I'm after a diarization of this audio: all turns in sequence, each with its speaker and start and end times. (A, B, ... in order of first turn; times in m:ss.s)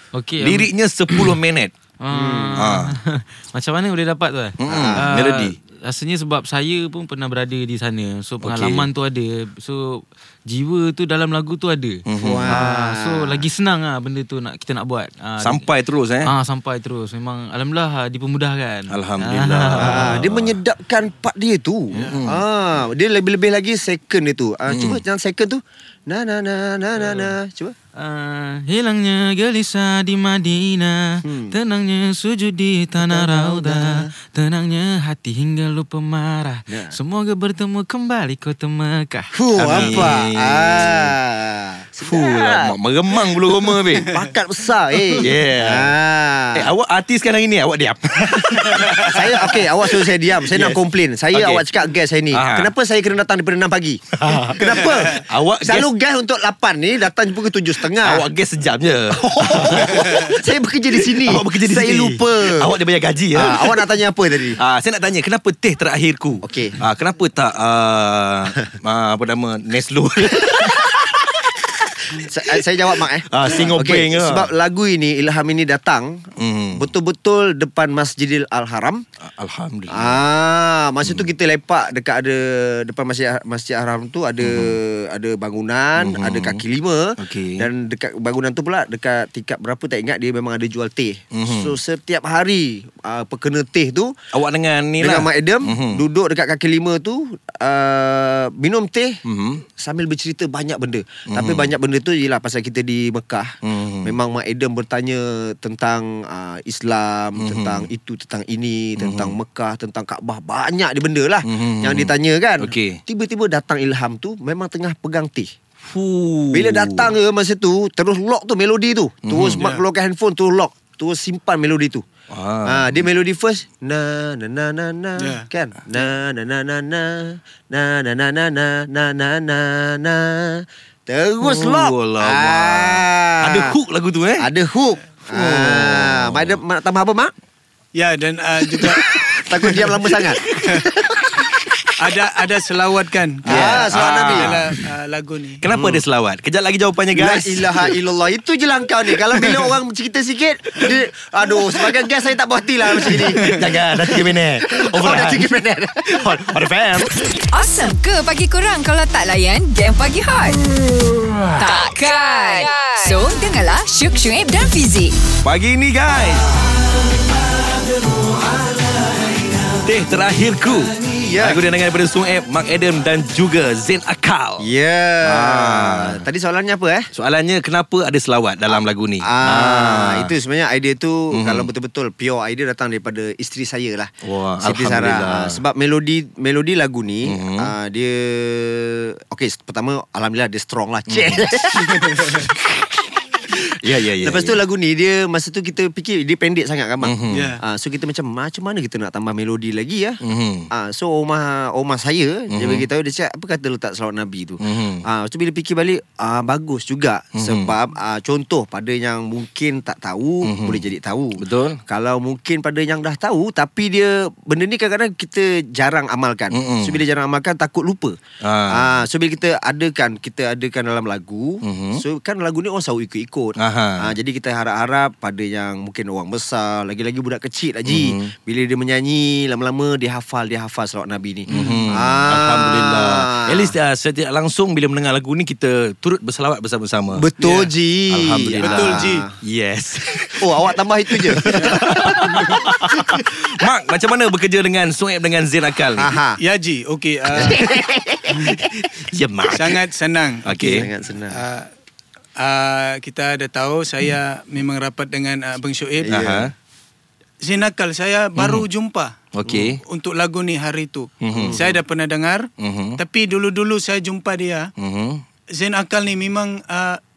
0:00.1-0:00.7 A
0:00.4-0:01.7 B
0:02.0-0:15.6 A
0:02.1-0:02.6 C
0:02.6-0:02.9 B
0:04.6-0:05.6 B
0:04.6-0:05.1 C
0:08.4-0:08.9 B
0:12.0-0:12.6 B
0:12.2-0:13.4 C
0:15.4-0:16.3 B
0:16.2-0:20.1 A
0:18.9-0:20.6 B
0:19.8-0:27.7 C
0:22.0-0:22.4 B
0:24.7-0:25.0 B
0:28.0-0:40.0 A
0:31.2-0:31.5 C
0:33.0-0:34.1 C
0:36.7-0:37.0 C
0:39.3-0:42.7 C
0:39.6-0:41.1 B
0:42.0-0:44.1 B
0:43.3-0:46.7 C
0:45.2-0:45.9 B
0:46.5-0:50.8 B
0:49.1-0:58.2 C
0:51.3-0:51.6 B
0:52.3-0:52.7 B
0:54.1-0:55.9 B
0:58.0-1:00.4 B
0:59.1-1:02.7 C
1:00.0-1:00.3 D
1:00.9-1:03.8 B
1:03.3-1:04.6 C
1:04.6-1:11.2 B
1:06.4-1:06.8 C
1:10.4-1:11.1 C
1:12.1-1:19.0 C
1:13.3-1:14.5 B
1:16.4-1:16.9 B
1:19.3-1:20.2 B
1:19.9-1:34.1 C
1:24.4-1:24.8 B
1:26.0-1:26.6 B
1:27.2-1:27.7 B
1:31.3-1:31.8 B
1:34.3-1:36.0 B
1:35.0-1:39.2 C
1:39.2-1:39.6 B
1:39.8-1:55.5 C
1:41.3-1:41.7 B
1:43.6-1:44.1 B
1:47.4-1:47.9 B
1:49.0-1:49.3 B
1:51.4-1:53.0 B
1:55.8-1:57.1 B
1:56.5-2:02.0 C
1:59.2-1:59.7 B
1:59.6-1:59.8 D
2:02.3-2:03.0 B
2:02.6-2:13.7 C
2:05.2-2:05.5 D
2:11.4-2:14.5 B
2:14.4-2:17.3 C
2:15.3-2:16.6 B
2:17.9-2:19.8 D
2:18.8-2:21.9 C
2:20.5-2:20.9 D
2:22.0-2:25.6 D
2:23.4-2:24.6 C
2:23.5-2:24.8 B
2:25.6-2:27.9 B
2:25.7-2:26.0 C
2:27.1-2:33.6 C
2:33.1-2:35.5 B
2:34.6-2:36.4 C
2:36.1-2:37.4 B
2:37.6-2:40.6 E
2:41.8-2:45.1 E
2:45.4-2:46.5 B
2:49.8-2:54.7 B
2:51.0-2:51.6 C
2:54.6-2:57.1 C
2:55.2-2:56.2 B
2:57.1-3:00.3 B
2:59.2-3:12.9 C
3:01.3-3:01.7 B
3:04.2-3:05.6 B
3:07.2-3:07.7 B
3:11.1-3:11.6 B
3:11.7-3:12.4 D
3:13.6-3:14.6 B
3:14.2-3:38.2 C
3:17.0-3:17.5 B
3:17.3-3:17.6 D
3:20.2-3:20.7 B
3:22.5-3:22.8 B
3:24.6-3:25.0 B
3:27.4-3:27.7 B
3:30.4-3:30.8 B
3:31.4-3:31.8 B
3:36.5-3:37.0 B
3:38.4-3:39.0 B
3:38.7-3:53.8 C
3:41.6-3:42.0 B
3:43.6-3:44.1 B
3:47.8-3:48.2 B
3:51.5-3:57.2 B
3:57.1-3:59.3 C
3:57.4-3:57.7 D
3:58.1-4:00.5 B
3:58.6-3:59.2 D
4:00.3-4:03.1 C
4:01.3-4:06.1 B
4:01.5-4:02.7 D
4:06.0-4:06.4 C
4:06.4-4:07.8 D
4:07.3-4:08.7 C
4:08.3-4:09.8 B
4:09.5-4:10.5 D
4:10.4-4:10.9 B
4:10.5-4:11.4 C
4:11.3-4:11.7 D
4:12.4-4:16.2 D
4:16.0-4:16.5 C
4:16.1-4:16.5 B
4:17.4-4:24.7 D
4:18.4-4:18.7 B
4:19.3-4:19.8 B
4:21.2-4:21.7 B
4:21.3-4:21.7 C
4:22.6-4:23.0 B
4:24.8-4:25.2 B
4:25.5-4:27.0 D